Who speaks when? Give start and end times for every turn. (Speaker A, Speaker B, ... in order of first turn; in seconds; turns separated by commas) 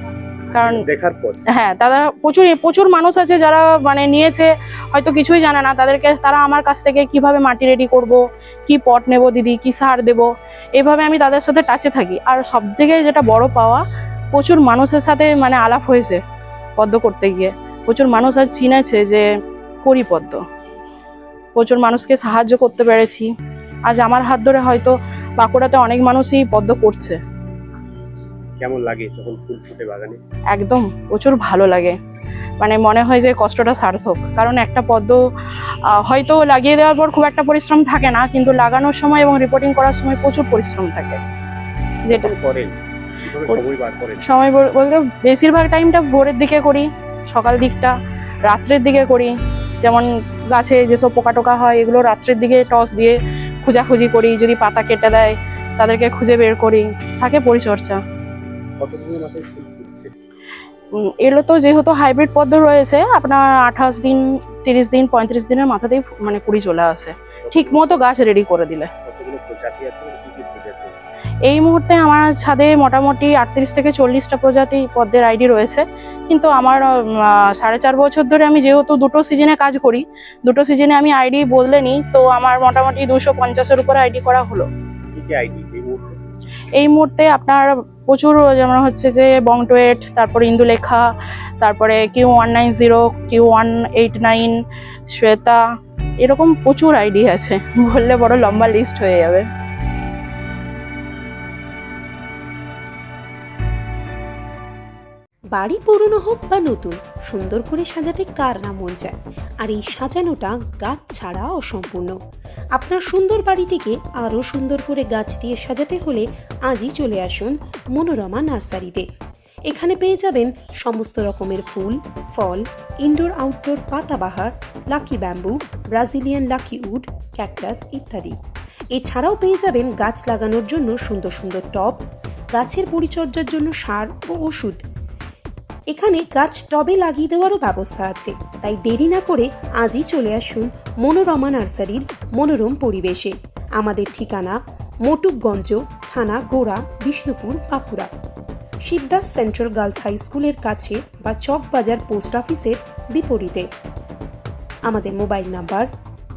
Speaker A: 0.5-0.8, Speaker B: 0.6-1.4, Speaker A: 1.5-16.2, Speaker A: 16.8-19.3, Speaker A: 19.8-20.4, Speaker A: 21.6-23.3, Speaker A: 23.9-27.2, Speaker B: 28.6-30.2, Speaker A: 30.5-32.0, Speaker A: 32.6-35.2, Speaker A: 36.0-41.2, Speaker B: 42.1-42.7, Speaker B: 43.2-44.2, Speaker A: 44.2-58.0, Speaker B: 58.8-60.1, Speaker A: 61.0-68.9, Speaker B: 67.4-68.0, Speaker B: 69.0-71.0, Speaker A: 71.5-84.7, Speaker B: 85.1-86.2, Speaker A: 86.8-91.1, Speaker A: 91.6-94.6, Speaker A: 95.2-95.6, Speaker A: 96.2-99.5, Speaker C: 105.5-112.2, Speaker C: 112.8-119.1, Speaker C: 119.7-128.4, Speaker C: 129.0-132.0, Speaker C: 132.6-134.8, Speaker C: 135.9-148.1, Speaker C: 148.9-153.7, Speaker C: 154.9-155.9